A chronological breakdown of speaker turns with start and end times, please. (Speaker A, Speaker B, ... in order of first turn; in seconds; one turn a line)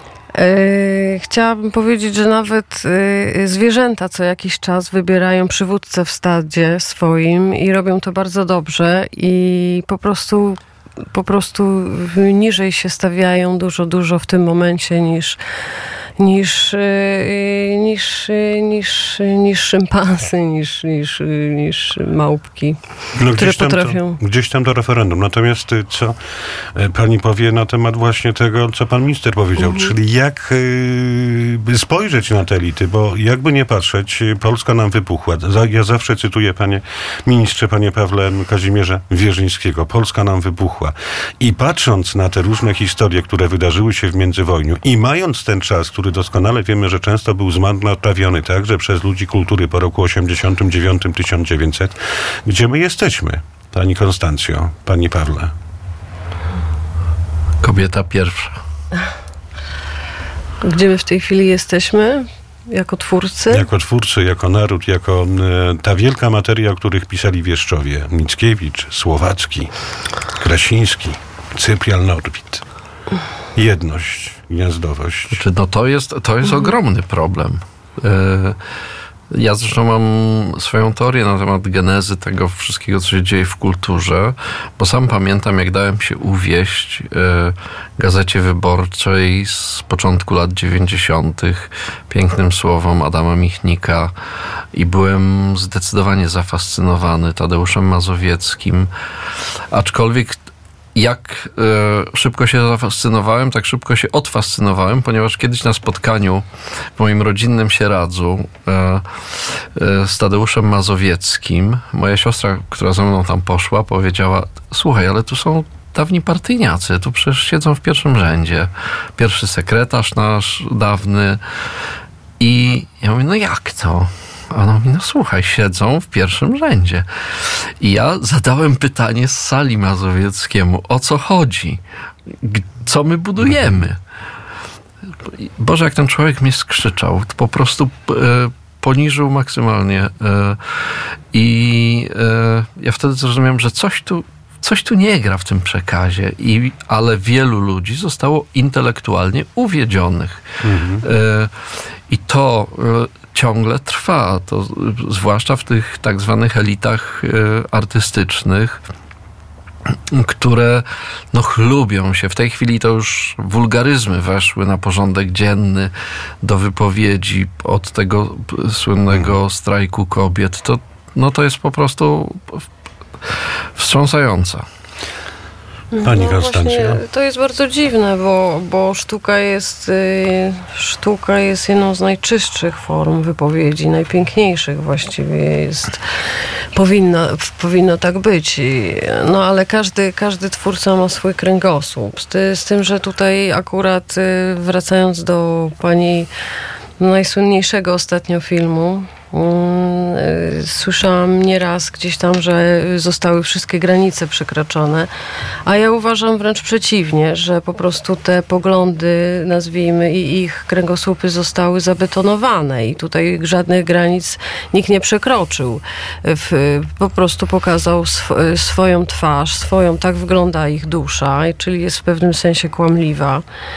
Speaker A: 0.3-10.6
Speaker A: 11.1-15.4
Speaker A: 16.2-22.8
Speaker B: 23.1-26.1
Speaker A: 23.4-24.2
Speaker B: 26.7-55.5
Speaker A: 29.6-29.9
Speaker C: 57.6-58.6
Speaker A: 60.6-63.6
Speaker B: 63.5-69.7
Speaker B: 70.3-72.6
Speaker B: 73.5-75.4
Speaker C: 75.3-78.6
Speaker C: 79.3-94.1
Speaker C: 94.7-98.9
Speaker C: 99.7-100.4
Speaker C: 100.9-106.4
Speaker C: 107.0-121.4
Speaker C: 122.4-134.0
Speaker C: 135.2-150.4
Speaker B: 150.6-151.0
Speaker C: 151.0-151.5
Speaker C: 152.1-158.8
Speaker C: 159.9-172.7
Speaker C: 173.3-174.7
Speaker A: 175.9-186.0
Speaker B: 176.0-177.0
Speaker A: 186.7-196.3
Speaker A: 197.0-205.1
Speaker A: 205.7-223.4